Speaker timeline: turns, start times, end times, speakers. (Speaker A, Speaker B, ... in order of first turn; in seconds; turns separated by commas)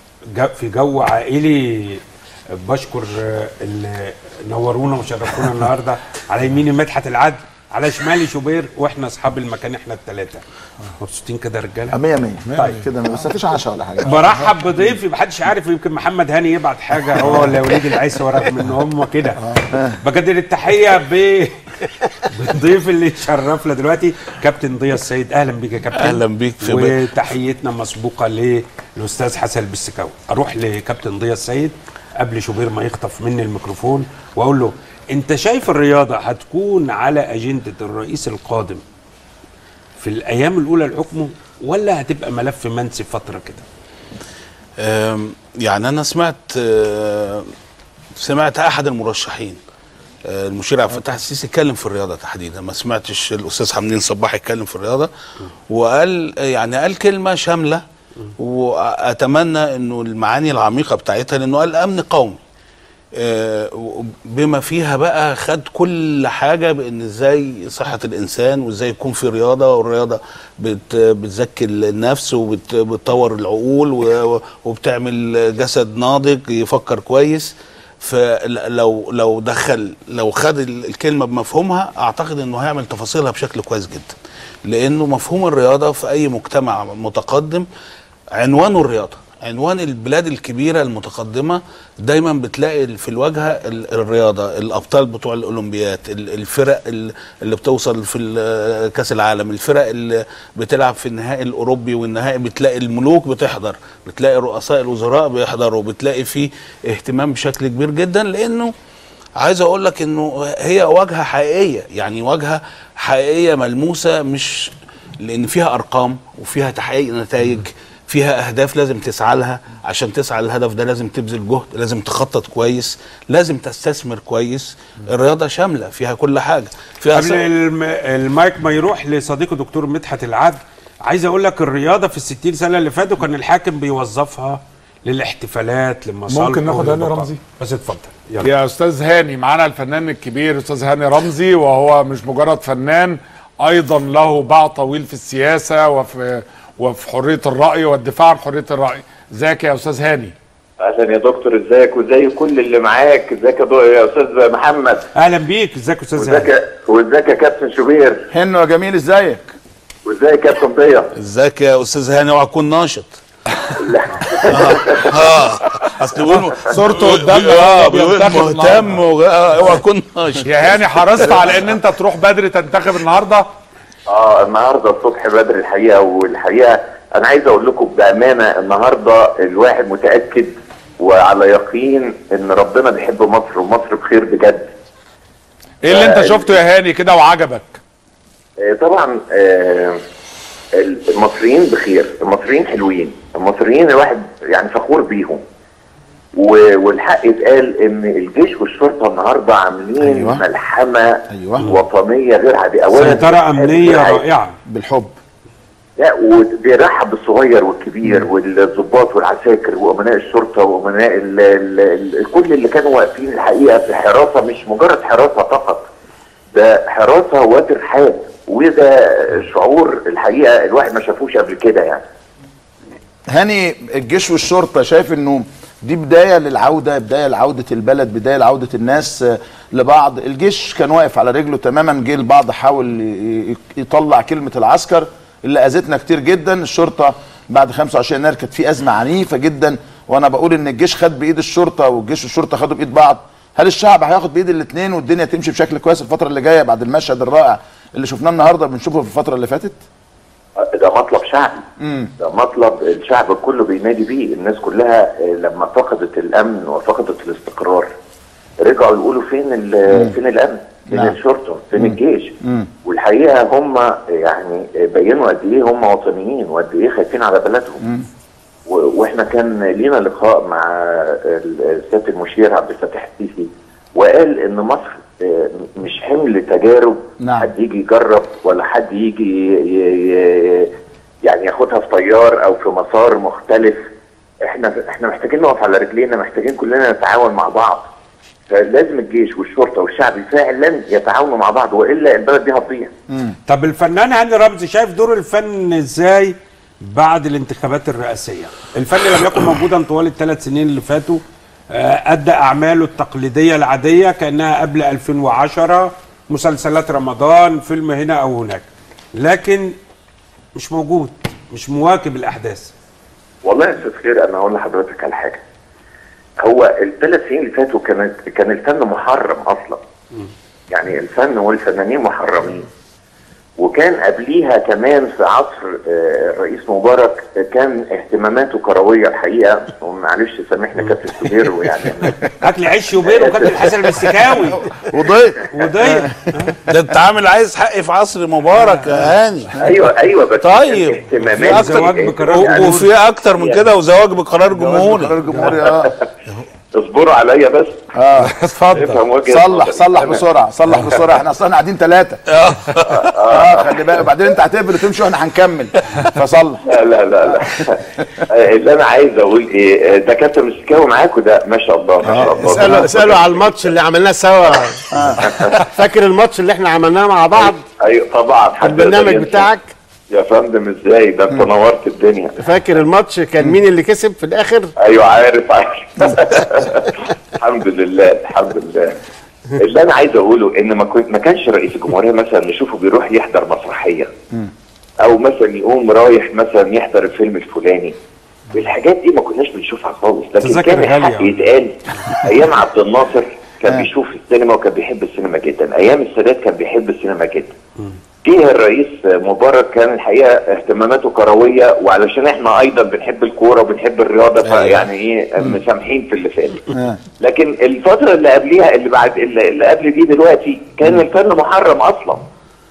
Speaker A: 0.3-2.0, Speaker A: 2.6-10.4, Speaker A: 11.0-11.9, Speaker B: 11.9-14.2, Speaker A: 12.5-12.8, Speaker A: 14.0-38.8, Speaker B: 17.3-17.6, Speaker B: 19.7-20.0, Speaker C: 25.9-27.2, Speaker A: 40.0-43.6, Speaker C: 44.8-47.5, Speaker C: 48.2-49.6, Speaker C: 50.3-55.1, Speaker C: 55.7-57.8, Speaker C: 58.4-62.4, Speaker C: 63.2-84.1, Speaker C: 84.7-87.7, Speaker C: 88.3-108.7, Speaker C: 109.4-114.7, Speaker C: 115.2-127.5, Speaker A: 127.1-138.5, Speaker D: 136.3-137.4, Speaker D: 138.4-150.3, Speaker E: 150.8-155.1, Speaker A: 155.1-156.5, Speaker E: 156.2-158.2, Speaker B: 158.3-159.5, Speaker E: 160.0-161.1, Speaker C: 161.2-163.2, Speaker E: 163.8-165.4, Speaker C: 164.4-171.7, Speaker E: 166.4-166.7, Speaker D: 166.5-168.9, Speaker D: 170.4-173.4, Speaker E: 174.1-184.7, Speaker D: 185.8-187.8, Speaker E: 185.9-186.5, Speaker E: 188.6-190.0, Speaker E: 190.8-195.4, Speaker E: 196.4-204.2, Speaker B: 200.0-200.4, Speaker B: 201.3-201.7, Speaker A: 202.9-204.6, Speaker B: 204.7-205.1, Speaker E: 206.0-215.9, Speaker E: 216.5-222.0, Speaker B: 223.3-249.8, Speaker E: 250.7-251.6, Speaker B: 251.8-252.1, Speaker E: 252.2-257.9, Speaker E: 258.6-267.8, Speaker B: 259.9-260.1, Speaker B: 260.9-261.2, Speaker B: 261.7-262.7, Speaker B: 267.8-268.1, Speaker E: 268.7-280.7, Speaker B: 277.2-277.5, Speaker E: 281.2-283.8, Speaker E: 284.4-287.9, Speaker E: 288.5-292.9, Speaker B: 293.1-293.4, Speaker A: 293.5-309.7, Speaker A: 310.5-312.7, Speaker E: 313.4-315.4, Speaker E: 316.4-319.8, Speaker E: 320.7-322.7, Speaker E: 323.6-332.2, Speaker A: 332.2-334.8, Speaker E: 333.0-334.1, Speaker B: 334.9-335.5, Speaker A: 335.5-336.6, Speaker B: 336.0-336.3, Speaker C: 336.6-339.7, Speaker A: 338.5-339.1, Speaker E: 339.6-343.6, Speaker C: 340.4-345.2, Speaker A: 341.4-342.9, Speaker B: 344.6-345.9, Speaker E: 345.3-346.1, Speaker E: 346.7-347.8, Speaker B: 347.9-348.3, Speaker D: 348.2-349.0, Speaker E: 348.7-350.2, Speaker B: 349.2-352.2, Speaker C: 352.3-353.2, Speaker E: 352.9-354.0, Speaker B: 353.3-356.7, Speaker E: 356.7-363.6, Speaker B: 362.0-362.9, Speaker F: 362.4-367.6, Speaker B: 364.9-365.3, Speaker E: 365.1-365.6, Speaker E: 367.4-369.5, Speaker F: 368.6-369.7, Speaker E: 370.1-372.3, Speaker F: 372.4-374.7, Speaker E: 374.8-379.0, Speaker E: 379.6-384.1, Speaker E: 385.0-387.9, Speaker E: 388.5-397.5, Speaker A: 390.4-391.4, Speaker E: 398.2-406.7, Speaker C: 404.4-404.8, Speaker B: 406.7-407.0, Speaker E: 407.2-412.2